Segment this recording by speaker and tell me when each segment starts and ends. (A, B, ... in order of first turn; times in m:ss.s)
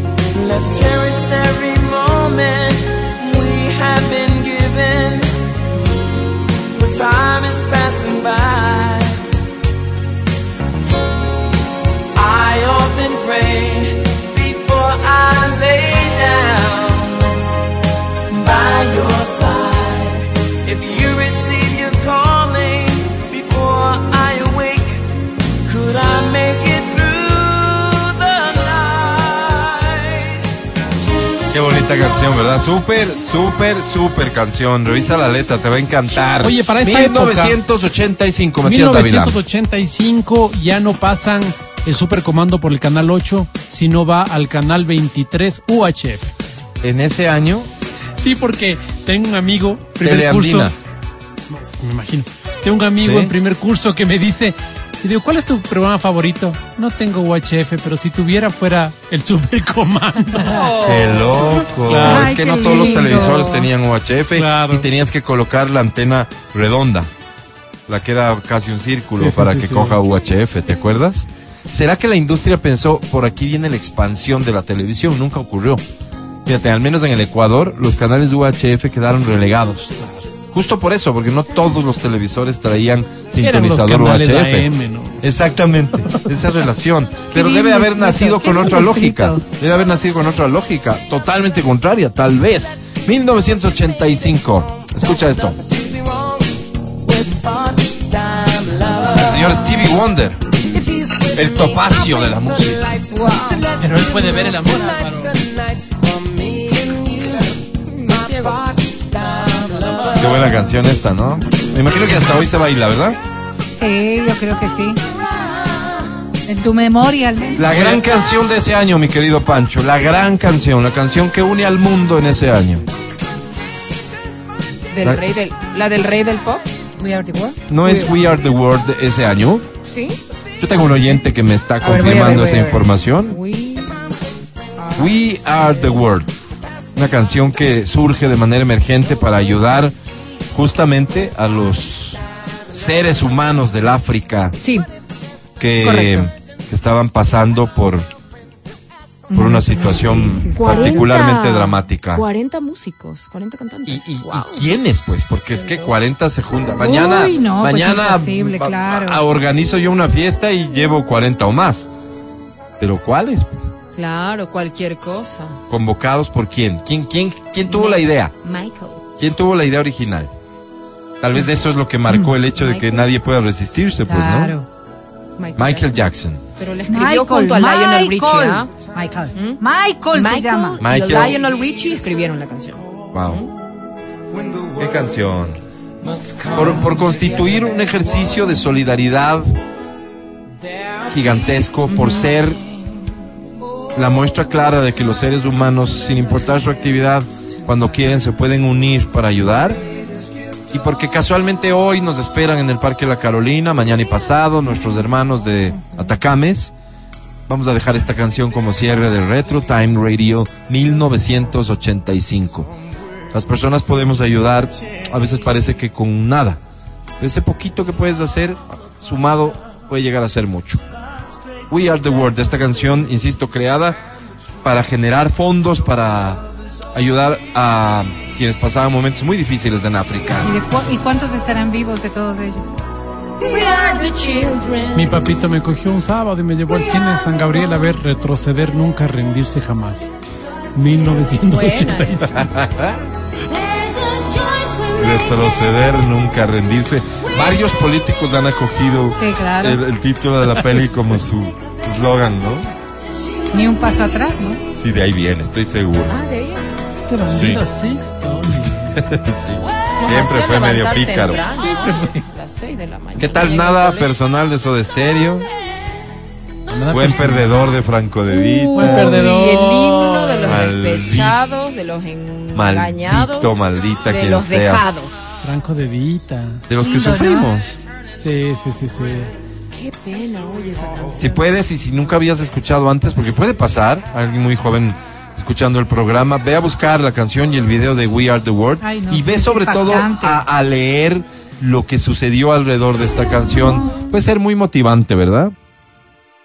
0:00.3-0:05.3 A
0:06.8-0:09.2 A
0:12.1-0:17.3 A
0:18.3-0:25.0 A
0:25.6-0:30.4 A
0:31.5-0:39.4 B
0:36.4-0:37.6 C
0:38.6-0:46.3 C
0:46.8-0:47.7 B
0:48.2-0:50.7 C
0:50.0-0:50.8 B
0:51.5-1:00.6 C
0:53.0-0:53.3 B
1:00.5-1:01.7 D
1:00.8-1:07.1 B
1:01.8-1:02.4 C
1:02.0-1:03.7 E
1:04.3-1:04.9 C
1:07.9-1:15.8 B
1:09.2-1:10.0 C
1:16.4-1:20.0 B
1:20.5-1:24.7 B
1:23.4-1:25.2 C
1:25.2-1:35.6 B
1:27.3-1:29.4 E
1:35.6-1:36.4 A
1:37.1-1:39.2 A
1:39.1-1:40.4 B
1:41.3-1:42.9 B
1:43.1-1:43.7 D
1:43.8-1:45.3 C
1:45.3-1:47.5 A
1:48.0-1:48.6 D
1:48.1-1:50.2 A
1:50.2-1:53.2 B
1:53.7-1:55.0 E
1:56.5-1:57.7 E
1:57.6-2:02.8 B
2:04.9-2:06.6 D
2:07.0-2:07.6 E
2:07.7-2:09.6 B
2:07.8-2:08.1 D
2:09.8-2:10.2 D
2:10.6-2:13.4 B
2:11.8-2:14.1 D
2:14.8-2:16.1 D
2:15.0-2:16.3 B
2:16.9-2:19.9 B
2:20.5-2:24.6 B
2:24.6-2:24.9 D
2:25.6-2:28.1 B
2:25.8-2:26.3 D
2:29.3-2:31.1 E
2:29.3-2:32.2 B
2:30.5-2:34.7 D
2:33.9-2:41.9 B
2:35.6-2:35.9 D
2:36.8-2:39.2 E
2:42.8-2:43.7 B
2:43.9-2:45.6 D
2:45.7-2:48.3 B
2:47.6-2:49.0 D
2:49.2-2:50.3 B
2:51.2-2:54.5 B
2:52.1-2:52.3 E
2:52.6-2:53.1 D
2:54.1-2:54.7 E
2:55.4-2:56.0 D
2:55.6-2:56.4 B
2:56.6-2:58.7 D
2:56.9-3:00.8 E
2:59.3-2:59.6 D
3:00.1-3:03.5 D
3:00.8-3:01.4 B
3:03.1-3:03.4 B
3:04.8-3:05.6 B
3:06.2-3:06.5 A
3:06.5-3:09.6 B
3:11.1-3:12.6 B
3:13.9-3:19.8 B
3:20.7-3:26.7 B
3:27.5-3:32.7 B
3:33.3-3:36.6 B
3:37.2-3:40.8 B
3:41.7-3:44.0 B
3:44.6-3:50.5 B
3:50.4-3:52.7 E
3:53.4-3:55.2 D
3:54.9-4:00.1 C
4:00.8-4:02.5 C
4:01.4-4:02.3 D
4:02.3-4:03.0 B
4:04.5-4:04.8 D
4:05.0-4:12.7 B
4:09.1-4:09.8 E
4:13.5-4:14.6 E
4:14.8-4:16.2 B
4:16.1-4:16.8 D
4:17.1-4:19.0 C
4:17.3-4:17.6 B
4:18.5-4:21.4 B
4:20.0-4:24.1 D
4:21.6-4:22.2 C
4:23.2-4:25.5 B
4:26.7-4:27.5 C
4:26.9-4:29.2 B
4:28.3-4:35.2 D
4:28.8-4:30.6 C
4:30.4-4:31.4 B
4:32.5-4:34.9 B
4:35.4-4:36.6 C
4:36.7-4:37.8 B
4:36.8-4:37.5 E
4:38.2-4:39.3 C
4:39.7-4:41.4 D
4:41.2-4:55.5 B
4:48.8-4:50.4 E